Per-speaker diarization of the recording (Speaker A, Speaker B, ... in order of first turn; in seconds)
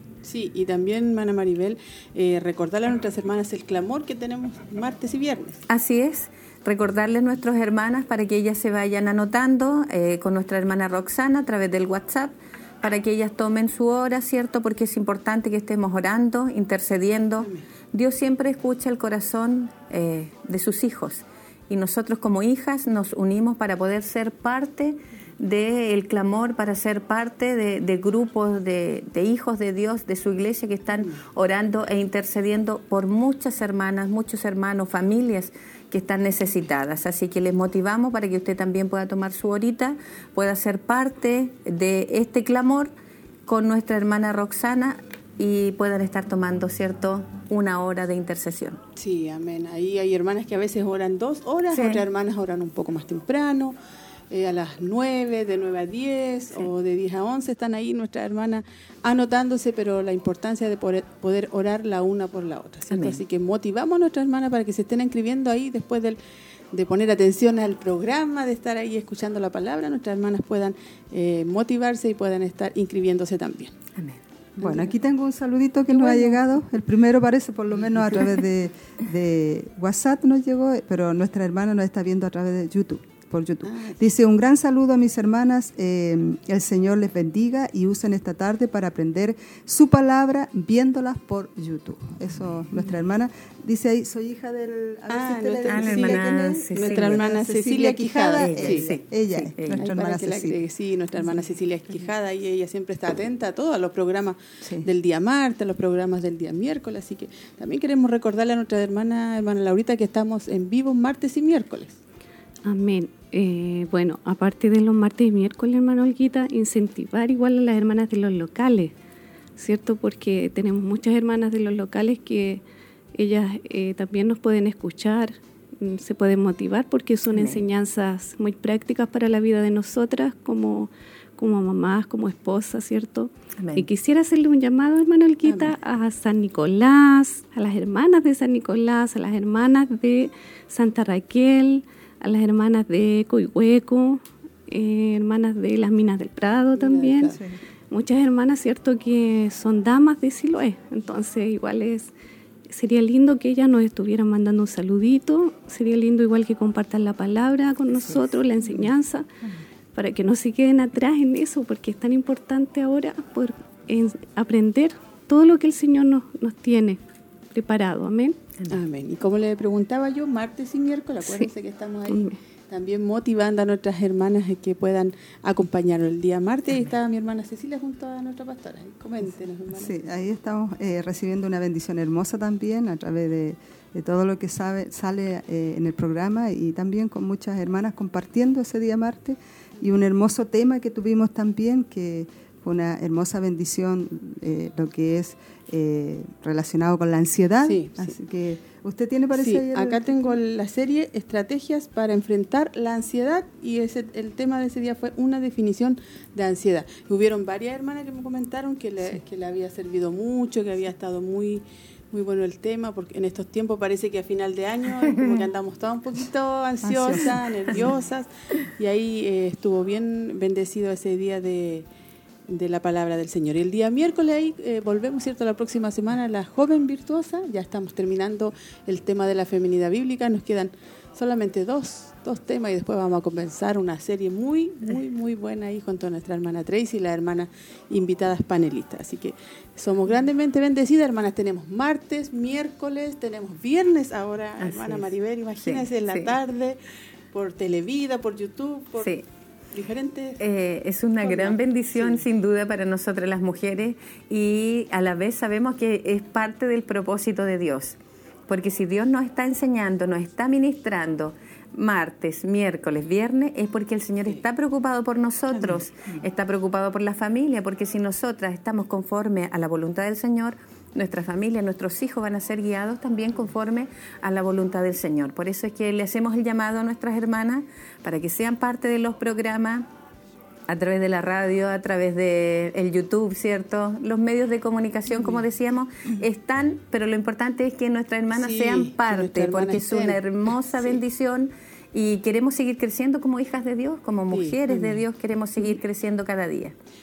Speaker A: 0.2-5.6, 17.4-17.6, 49.0-53.7, 54.3-66.2, 66.7-73.7, 74.6-74.9, 75.9-76.4, 83.6-84.0, 95.1-98.9, 99.7-112.0, 135.4-135.7, 146.7-147.4, 168.7-179.9, 197.7-198.1, 199.3-221.9, 222.5-246.8, 247.3-249.1, 249.7-250.4, 251.2-252.2, 285.1-285.4, 288.3-290.2, 290.7-291.0, 294.3-295.0
Speaker B: 5.7-42.9, 43.5-48.8, 51.7-52.0, 62.9-63.2, 95.7-97.2, 98.4-99.8, 127.3-127.6, 133.6-133.9, 244.6-245.1, 245.6-246.4, 249.0-249.2, 250.4-279.9, 280.7-296.7
Speaker C: 74.6-100.6, 179.7-200.4, 216.9-217.3
Speaker D: 112.6-118.9, 119.6-122.6, 123.1-147.4, 147.9-152.1, 152.7-159.3, 159.9-167.0, 167.5-168.4, 172.1-172.4